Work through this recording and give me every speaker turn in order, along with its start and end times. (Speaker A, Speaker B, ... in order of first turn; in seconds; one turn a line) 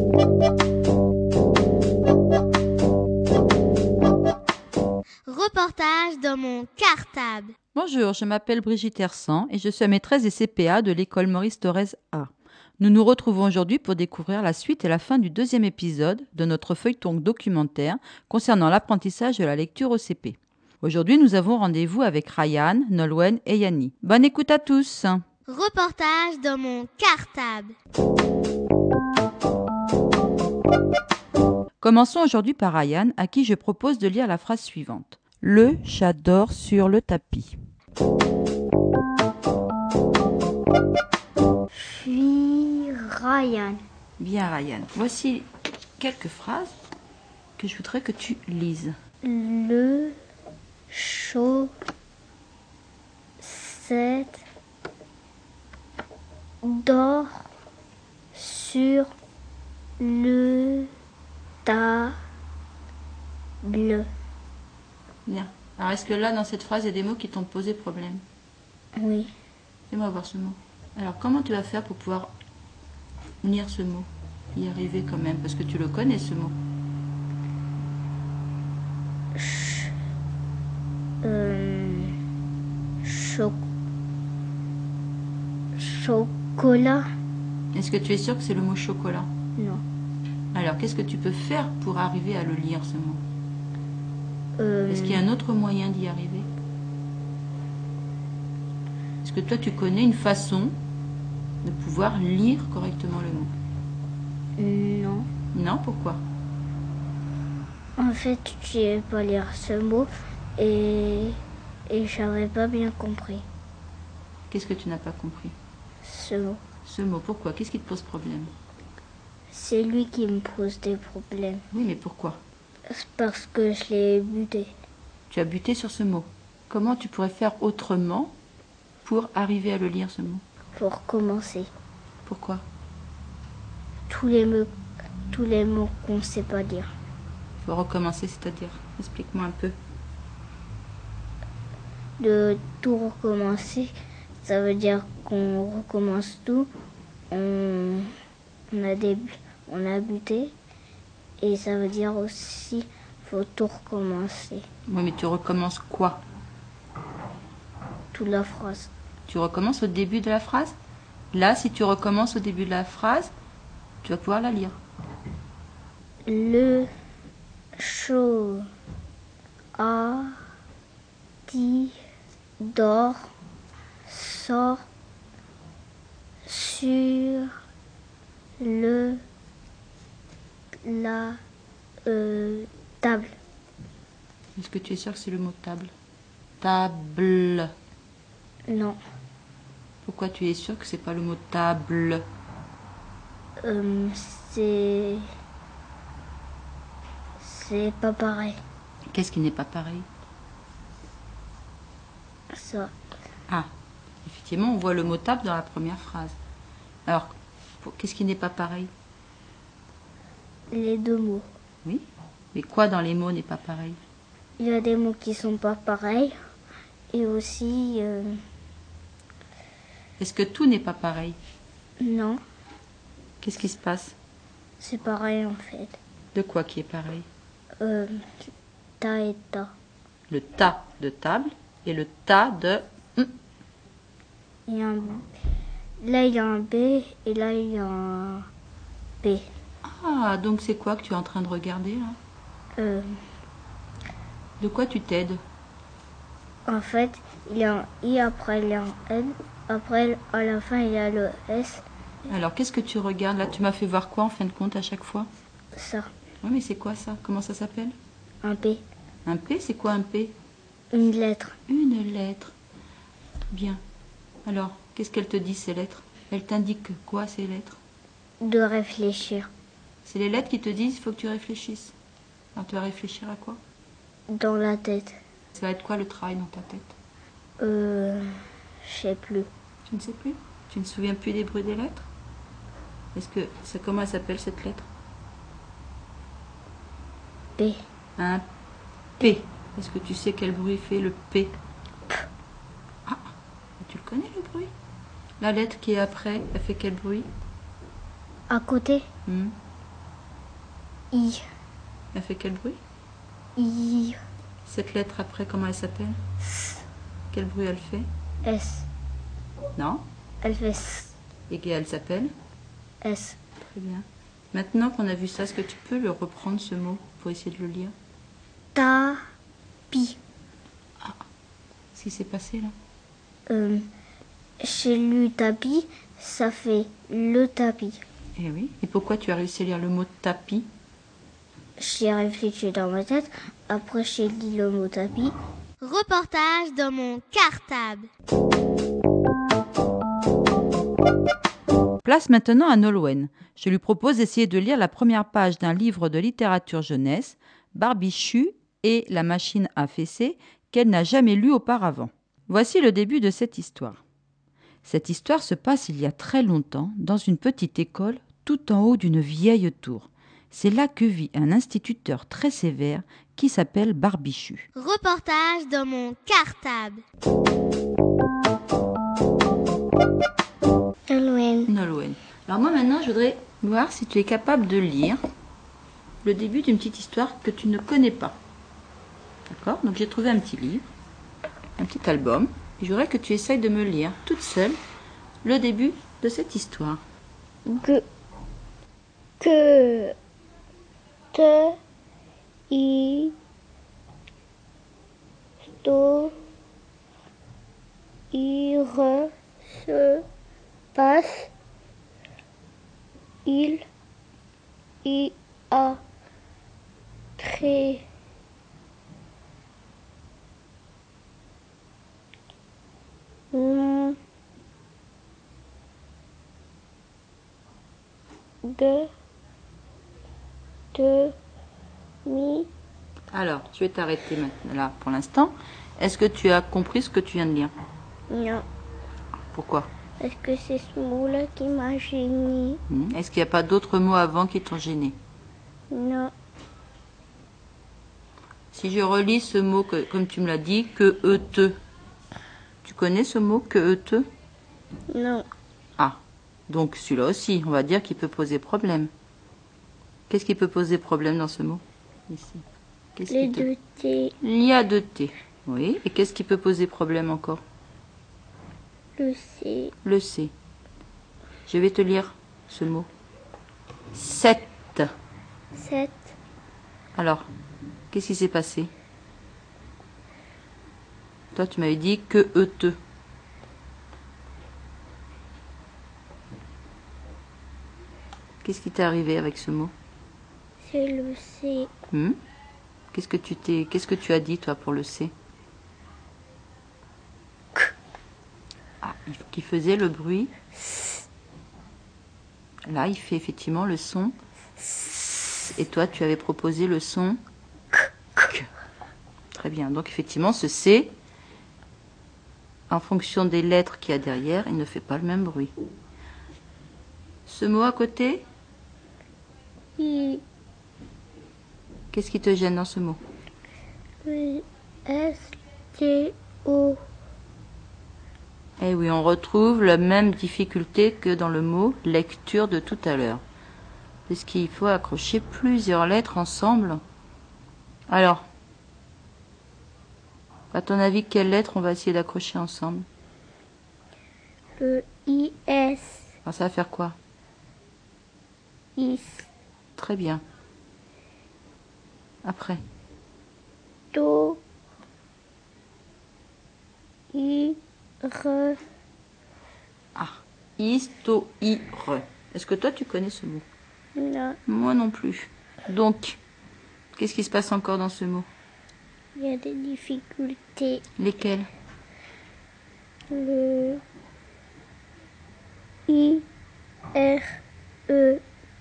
Speaker A: 5.3-7.5
Speaker B: 7.8-25.2
Speaker A: 25.5-27.8
Speaker B: 31.8-37.6
Speaker C: 41.7-43.8
Speaker B: 44.2-45.5
Speaker B: 46.0-46.8
Speaker B: 47.6-49.0
Speaker C: 49.2-50.2
Speaker C: 50.9-51.7
Speaker C: 53.4-54.4
Speaker C: 56.6-57.5
Speaker C: 58.3-59.1
Speaker C: 60.0-60.9
Speaker C: 61.6-62.2
Speaker C: 63.6-64.1
Speaker B: 65.3-68.2
Speaker C: 69.0-69.3
Speaker B: 69.9-72.3
Speaker B: 73.4-76.6
Speaker C: 79.3-79.9
Speaker C: 81.2-82.2
Speaker C: 83.0-83.6
Speaker C: 85.8-87.0
Speaker B: 87.7-89.3
Speaker C: 89.6-89.8
Speaker B: 90.5-93.2
Speaker C: 94.6-95.2
Speaker B: 94.9-96.5
Speaker B: 99.2-100.8
Speaker B: 101.6-103.5
Speaker C: 104.6-105.3
Speaker B: 105.5-106.2
Speaker C: 108.0-113.5
Speaker B: 114.5-115.5
Speaker C: 116.0-116.6
Speaker B: 116.8-118.5
Speaker C: 119.5-121.7
Speaker B: 121.7-122.4
Speaker C: 122.9-124.7
Speaker B: 125.3-128.3
Speaker B: 129.1-130.4
Speaker C: 130.8-131.7
Speaker B: 132.2-132.7
Speaker C: 134.1-134.7
Speaker C: 135.3-136.9
Speaker B: 137.6-139.8
Speaker C: 142.2-143.9
Speaker C: 144.4-146.7
Speaker C: 147.3-148.1
Speaker C: 148.7-150.5
Speaker C: 151.4-154.7
Speaker B: 154.9-156.2
Speaker C: 158.1-158.9
Speaker B: 159.3-160.8
Speaker B: 161.3-163.3
Speaker B: 164.0-164.8
Speaker C: 166.3-166.9
Speaker C: 167.8-168.7
Speaker C: 169.8-170.4
Speaker C: 171.5-172.0
Speaker C: 172.6-173.3
Speaker C: 174.1-174.8
Speaker C: 176.4-177.5
Speaker C: 178.6-179.2
Speaker C: 180.8-181.4
Speaker C: 182.1-183.4
Speaker B: 184.6-185.9
Speaker B: 186.6-187.7
Speaker C: 188.7-189.0
Speaker B: 190.0-192.2
Speaker C: 193.6-195.3
Speaker C: 197.4-198.6
Speaker B: 199.1-200.1
Speaker C: 202.5-202.9
Speaker B: 204.2-206.4
Speaker B: 207.1-208.9
Speaker C: 210.7-211.5
Speaker B: 211.8-214.0
Speaker C: 214.6-216.4
Speaker C: 217.1-218.4
Speaker B: 220.2-221.4
Speaker C: 222.0-222.4
Speaker B: 223.4-224.2
Speaker C: 224.8-226.0
Speaker B: 226.3-227.3
Speaker C: 227.8-228.2
Speaker C: 229.0-229.7
Speaker B: 230.3-233.4
Speaker C: 234.7-235.2
Speaker C: 236.0-238.5
Speaker B: 239.8-242.2
Speaker C: 242.8-243.2
Speaker B: 244.6-245.4
Speaker C: 246.7-251.8
Speaker B: 252.3-255.3
Speaker C: 255.7-256.1
Speaker B: 256.4-258.0
Speaker C: 258.4-258.8
Speaker B: 259.3-260.4
Speaker C: 260.9-261.6
Speaker B: 261.7-262.6
Speaker B: 263.5-263.8
Speaker B: 264.4-267.8
Speaker C: 268.4-269.5
Speaker B: 270.1-271.9
Speaker B: 272.6-273.6
Speaker C: 274.3-275.2
Speaker B: 275.5-276.9
Speaker C: 277.6-278.3
Speaker C: 278.9-279.5
Speaker B: 279.9-282.1
Speaker B: 283.1-284.9
Speaker B: 288.2-288.4
Speaker B: 289.2-291.6
Speaker B: 293.1-294.7
Speaker B: 295.4-297.3
Speaker C: 298.5-299.1
Speaker B: 299.3-299.5
Speaker C: 301.1-301.4
Speaker B: 302.1-302.8
Speaker C: 303.6-304.2
Speaker B: 304.7-306.2
Speaker B: 307.3-308.1
Speaker C: 308.4-308.9
Speaker B: 309.8-310.0
Speaker C: 310.4-311.1
Speaker B: 311.5-312.3
Speaker C: 313.0-313.4
Speaker B: 313.6-317.9
Speaker C: 318.7-319.2
Speaker C: 319.9-320.2
Speaker B: 321.9-322.8
Speaker C: 323.5-323.9
Speaker C: 324.6-328.0
Speaker B: 328.4-330.7
Speaker C: 331.8-335.3
Speaker A: 335.8-338.1
Speaker B: 342.0-354.0
Speaker B: 354.9-364.7
Speaker A: 364.8-367.0
Speaker C: 371.1-371.7
Speaker B: 371.7-375.2
Speaker B: 376.2-378.4
Speaker B: 379.5-380.9
Speaker B: 381.8-384.8
Speaker B: 385.4-387.0
Speaker C: 387.7-388.0
Speaker C: 389.4-390.1
Speaker C: 391.3-391.8
Speaker C: 392.7-393.3
Speaker C: 395.8-396.4
Speaker C: 398.3-400.2
Speaker C: 400.9-401.5
Speaker C: 403.5-403.8
Speaker C: 405.1-406.0
Speaker C: 407.4-408.0
Speaker C: 413.5-414.2
Speaker C: 418.6-419.1
Speaker C: 420.9-421.3
Speaker C: 422.2-422.7
Speaker B: 423.3-427.7
Speaker C: 428.3-428.6
Speaker B: 429.5-429.9
Speaker C: 430.2-432.8
Speaker B: 432.9-435.2
Speaker C: 435.9-436.3
Speaker B: 438.7-441.8
Speaker B: 442.8-444.3
Speaker C: 445.1-445.5
Speaker B: 446.0-449.1
Speaker B: 450.3-452.6
Speaker B: 453.2-453.7
Speaker C: 453.3-454.3
Speaker B: 454.4-457.6
Speaker C: 459.2-459.9
Speaker B: 460.0-460.5
Speaker B: 461.7-463.1
Speaker B: 464.1-465.1
Speaker C: 465.8-466.3
Speaker B: 467.1-467.5
Speaker B: 468.1-468.9
Speaker B: 471.5-473.0
Speaker B: 478.6-479.9
Speaker C: 480.9-481.9
Speaker B: 482.1-482.4
Speaker B: 483.1-485.3
Speaker B: 489.0-490.5
Speaker B: 492.9-494.4
Speaker B: 495.0-497.4
Speaker B: 498.4-498.7
Speaker B: 499.6-501.1
Speaker B: 502.9-505.7
Speaker B: 507.5-508.4
Speaker C: 510.0-510.4
Speaker B: 512.1-513.2
Speaker C: 514.2-517.0
Speaker B: 518.8-523.4
Speaker B: 524.3-527.0
Speaker B: 528.1-528.5
Speaker B: 530.7-533.1
Speaker C: 534.8-536.3
Speaker B: 536.5-537.2
Speaker C: 539.0-539.5
Speaker B: 540.0-540.4
Speaker B: 542.4-542.8
Speaker C: 544.1-544.6
Speaker C: 547.3-548.8
Speaker B: 550.1-553.7
Speaker C: 554.2-554.6
Speaker B: 554.7-556.4
Speaker B: 557.2-558.5
Speaker C: 559.4-561.0
Speaker B: 561.2-561.7
Speaker C: 563.3-564.0
Speaker C: 566.1-566.4
Speaker C: 567.1-567.5
Speaker C: 568.1-568.4